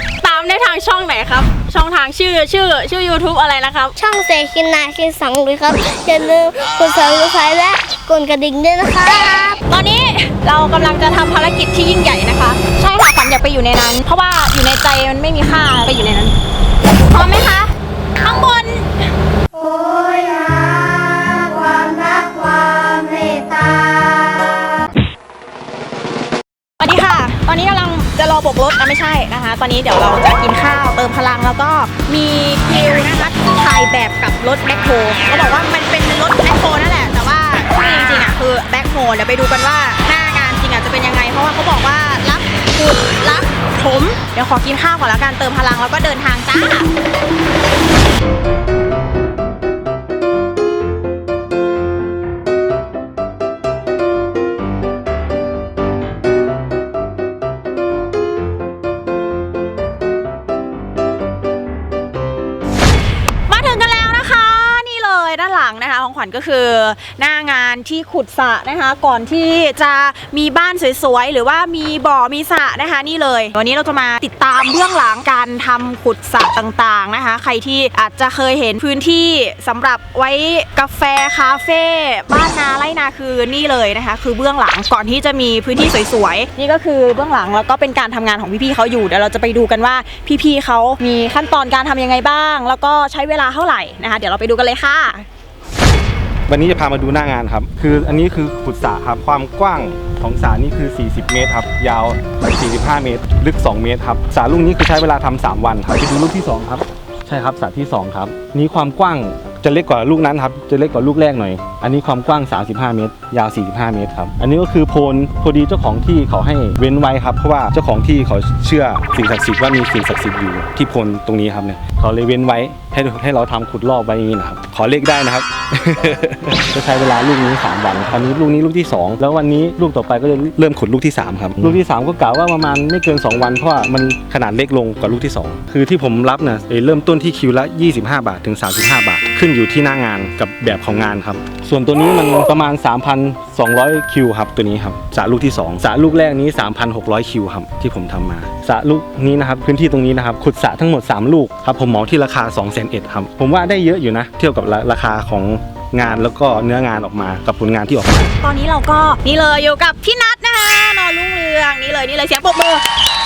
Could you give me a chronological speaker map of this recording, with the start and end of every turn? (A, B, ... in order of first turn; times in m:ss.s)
0:00.2-0:04.0 A
0:04.0-0:09.6 B
0:09.7-0:16.4 A
0:17.0-0:19.0 A
0:19.6-0:24.7 B
0:26.8-0:46.9 A
1:03.5-1:35.3 A
1:36.5-2:38.4 C
2:38.4-2:42.8 A